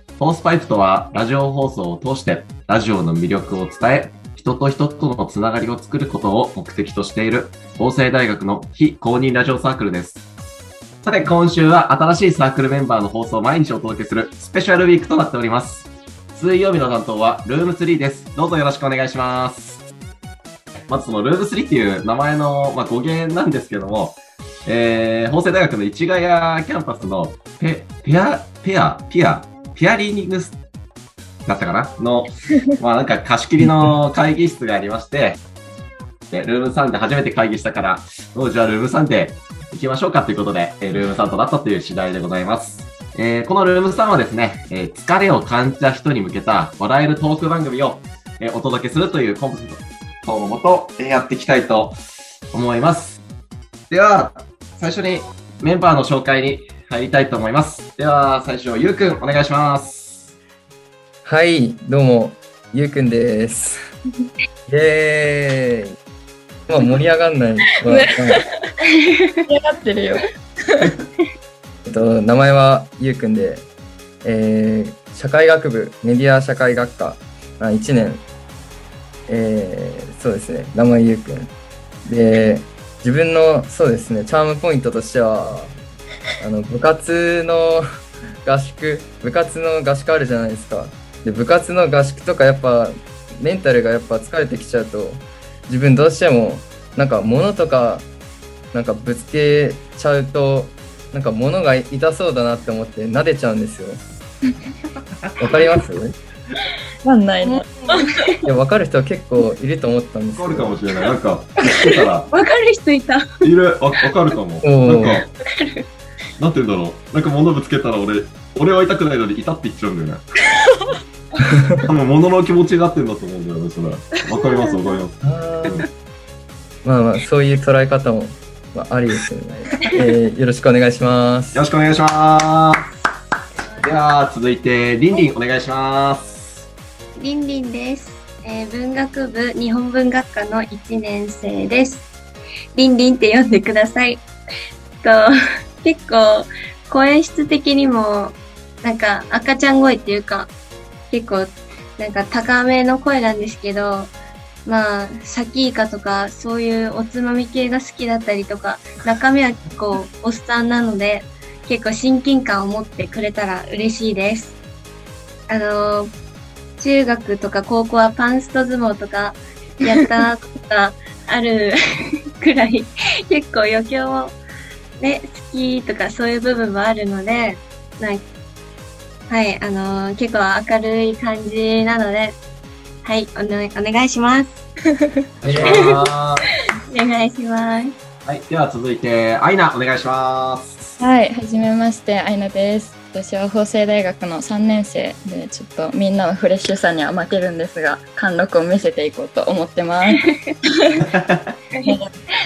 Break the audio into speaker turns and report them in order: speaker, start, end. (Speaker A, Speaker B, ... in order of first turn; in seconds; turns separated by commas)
Speaker A: 0.2-10.2, Speaker A: 11.0-19.8, Speaker A: 20.9-30.6, Speaker A: 31.4-35.4, Speaker A: 36.3-52.0, Speaker A: 52.5-53.2, Speaker A: 53.9-60.3, Speaker B: 61.2-63.8, Speaker B: 64.7-65.8, Speaker B: 66.7-68.4, Speaker C: 67.8-68.7, Speaker D: 69.2-69.4, Speaker C: 69.5-70.3, Speaker B: 71.8-73.7, Speaker B: 74.2-78.2, Speaker B: 79.3-81.5, Speaker B: 82.0-85.7, Speaker B: 86.4-87.8, Speaker B: 88.4-98.1, Speaker B: 98.7-104.0, Speaker B: 105.4-106.1, Speaker C: 107.0-108.0, Speaker D: 107.4-108.3, Speaker B: 108.4-110.8, Speaker A: 110.3-112.3, Speaker C: 111.6-112.0, Speaker D: 112.3-113.2, Speaker A: 113.4-115.3, Speaker B: 114.6-115.2, Speaker D: 115.4-115.8, Speaker A: 116.4-120.2, Speaker B: 121.4-121.7, Speaker A: 121.8-125.8, Speaker D: 124.3-125.0, Speaker B: 125.2-125.9, Speaker B: 126.8-131.6, Speaker A: 131.5-132.8, Speaker D: 133.6-133.9, Speaker A: 133.8-136.7, Speaker D: 137.2-142.1, Speaker D: 142.8-144.2, Speaker D: 145.8-150.5, Speaker D: 151.1-154.1, Speaker D: 154.7-164.6, Speaker D: 165.5-166.1, Speaker D: 166.8-171.7, Speaker D: 172.4-174.4, Speaker D: 175.0-178.2, Speaker D: 179.3-182.4, Speaker D: 183.0-184.6, Speaker A: 185.4-186.4, Speaker B: 185.4-185.8, Speaker D: 185.6-185.9, Speaker D: 186.9-187.9, Speaker A: 188.2-191.0, Speaker C: 191.0-201.1